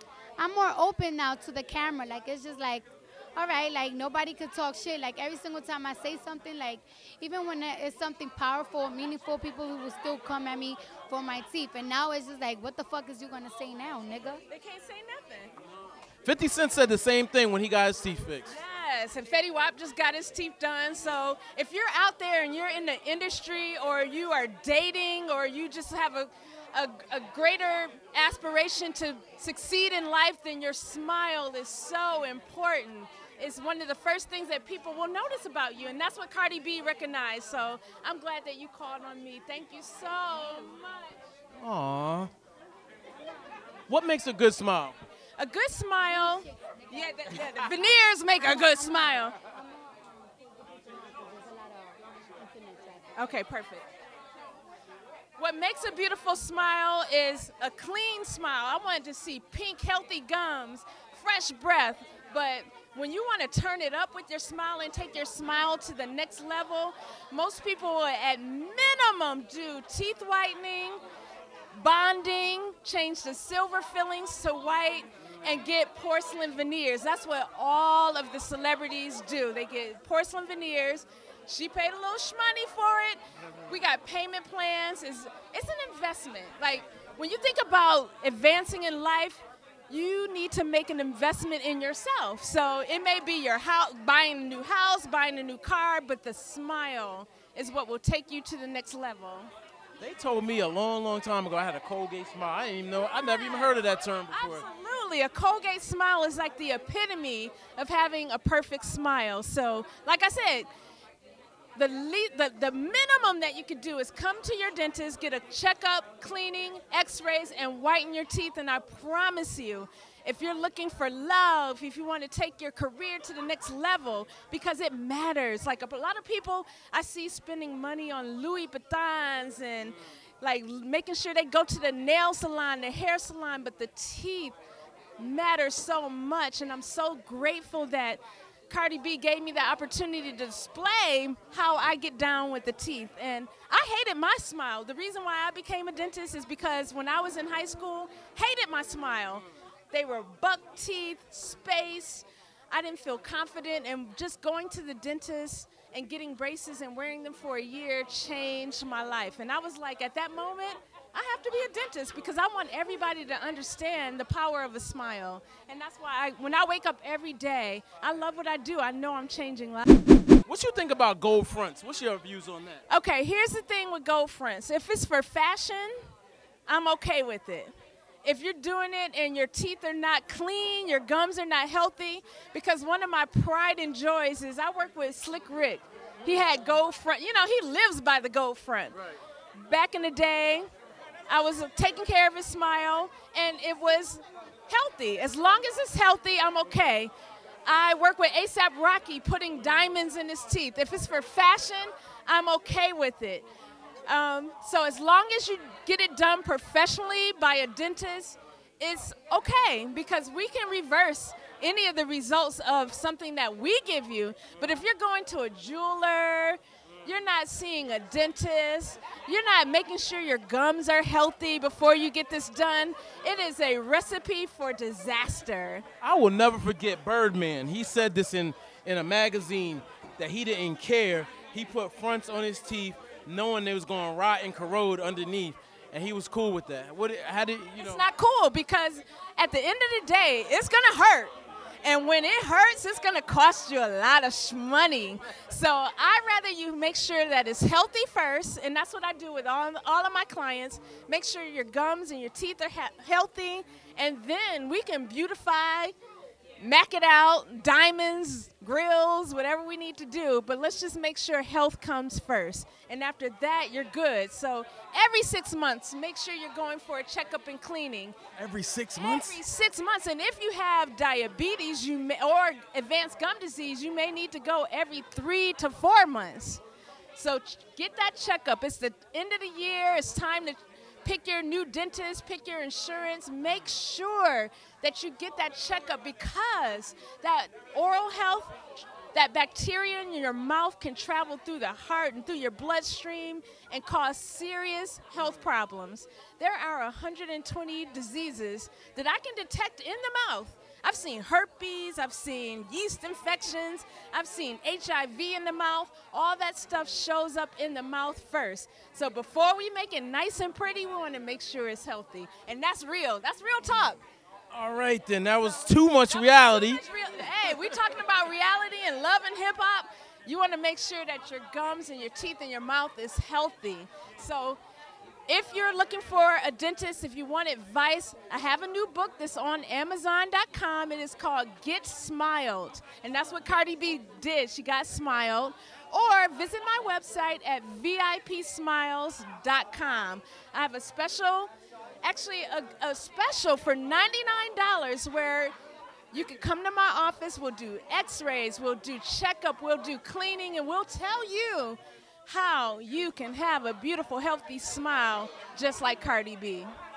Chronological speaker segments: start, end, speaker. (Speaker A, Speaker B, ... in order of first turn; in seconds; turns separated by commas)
Speaker A: 0.4-14.4, Speaker B: 14.5-15.5, Speaker C: 16.2-18.5, Speaker B: 18.5-40.9, Speaker C: 41.6-42.3, Speaker C: 43.9-45.0, Speaker B: 45.4-49.3, Speaker A: 46.1-53.1, Speaker B: 53.1-53.9, Speaker B: 55.4-71.0, Speaker B: 71.7-99.5, Speaker C: 100.0-104.6, Speaker B: 103.1-103.8, Speaker B: 104.3-110.7, Speaker B: 111.8-134.6, Speaker B: 135.2-169.9, Speaker C: 170.4-172.8, Speaker B: 172.9-175.9, Speaker B: 176.7-177.7, Speaker B: 178.2-189.0, Speaker B: 189.5-190.7, Speaker B: 191.3-197.1, Speaker B: 197.7-203.5, Speaker B: 204.1-225.8, Speaker C: 226.0-238.0, Speaker B: 237.8-255.9, Speaker B: 256.6-268.2, Speaker C: 268.4-269.4, Speaker B: 269.0-276.6, Speaker B: 277.1-288.6, Speaker B: 289.1-314.0, Speaker C: 314.5-316.8, Speaker B: 316.1-324.6, Speaker B: 325.3-341.5, Speaker B: 342.0-345.5, Speaker B: 346.1-356.7